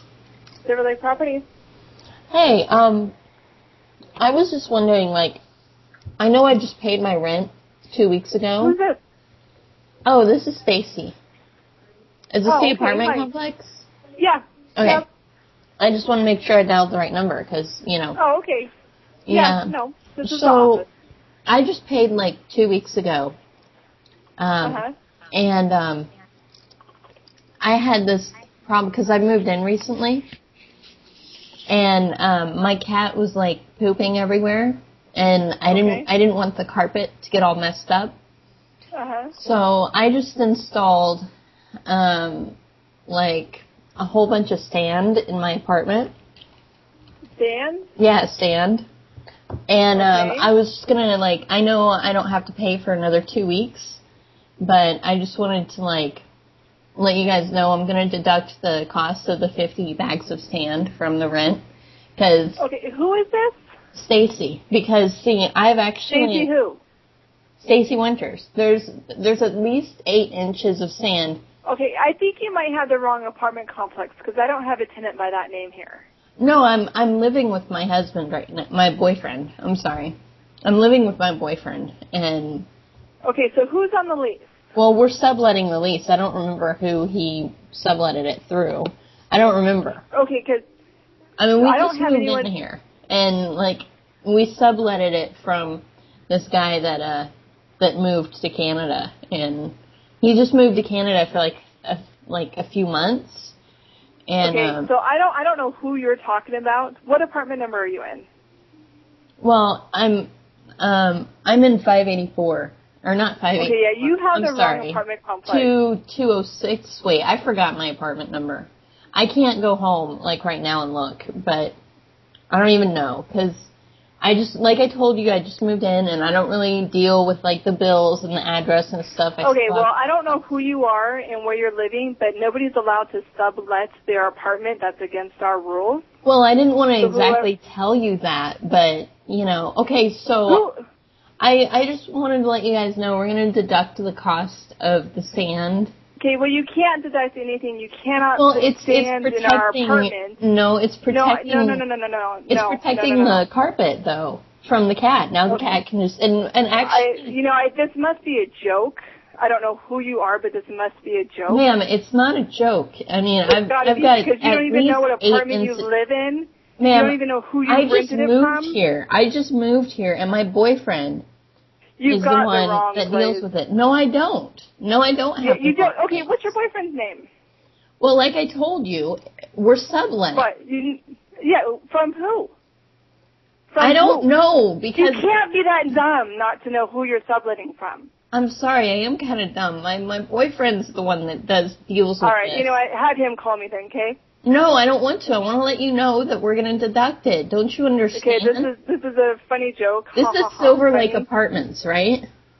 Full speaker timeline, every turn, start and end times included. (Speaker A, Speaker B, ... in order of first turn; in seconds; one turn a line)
Speaker A: 0.6-1.4
Speaker B: 2.3-3.1
Speaker B: 4.2-5.4
Speaker B: 6.2-8.8
Speaker A: 8.6-9.0
Speaker B: 10.0-11.2
Speaker B: 12.3-13.9
Speaker A: 12.4-13.3
Speaker A: 14.2-15.0
Speaker B: 14.8-15.0
Speaker B: 15.8-18.2
Speaker A: 18.1-18.7
Speaker B: 19.3-20.8
Speaker A: 19.3-20.9
Speaker B: 21.5-23.4
Speaker B: 24.4-26.1
Speaker A: 24.6-24.9
Speaker B: 27.6-30.2
Speaker B: 31.7-38.1
Speaker A: 35.7-36.1
Speaker A: 38.9-39.3
Speaker B: 39.3-41.2
Speaker B: 41.9-42.5
Speaker B: 43.1-46.1
Speaker A: 47.4-47.9
Speaker B: 48.0-48.8
Speaker B: 49.7-54.0
Speaker A: 49.9-50.5
Speaker B: 54.6-56.2
Speaker B: 57.0-61.6
Speaker B: 62.2-62.6
Speaker A: 62.6-63.6
Speaker B: 63.9-66.5
Speaker A: 66.1-66.8
Speaker B: 67.6-71.4
Speaker A: 71.7-76.0
Speaker B: 76.4-82.7
Speaker A: 83.2-84.5
Speaker B: 84.7-90.0
Speaker A: 90.1-90.6
Speaker B: 91.4-103.5
Speaker A: 91.6-92.5
Speaker B: 104.3-104.9
Speaker A: 104.4-108.3
Speaker B: 109.4-110.3
Speaker B: 110.8-121.8
Speaker A: 113.5-115.7
Speaker B: 122.5-123.7
Speaker B: 124.2-129.9
Speaker A: 129.4-136.1
Speaker B: 136.2-140.7
Speaker A: 137.0-137.5
Speaker A: 140.5-140.8
Speaker B: 141.4-145.9
Speaker A: 146.2-150.4
Speaker B: 148.4-151.8
Speaker A: 151.1-153.4
Speaker B: 152.5-157.3
Speaker A: 155.5-155.8
Speaker A: 156.8-161.6
Speaker B: 161.5-165.9
Speaker A: 163.5-168.8
Speaker B: 166.8-171.2
Speaker A: 172.0-173.4
Speaker B: 172.1-176.3
Speaker A: 175.4-177.3
Speaker B: 178.0-180.5
Speaker A: 180.3-182.5
Speaker A: 183.7-184.3
Speaker B: 183.8-185.3
Speaker A: 184.9-188.1
Speaker B: 188.3-192.8
Speaker A: 192.2-194.2
Speaker B: 194.4-198.7
Speaker A: 198.1-201.3
Speaker B: 200.1-202.2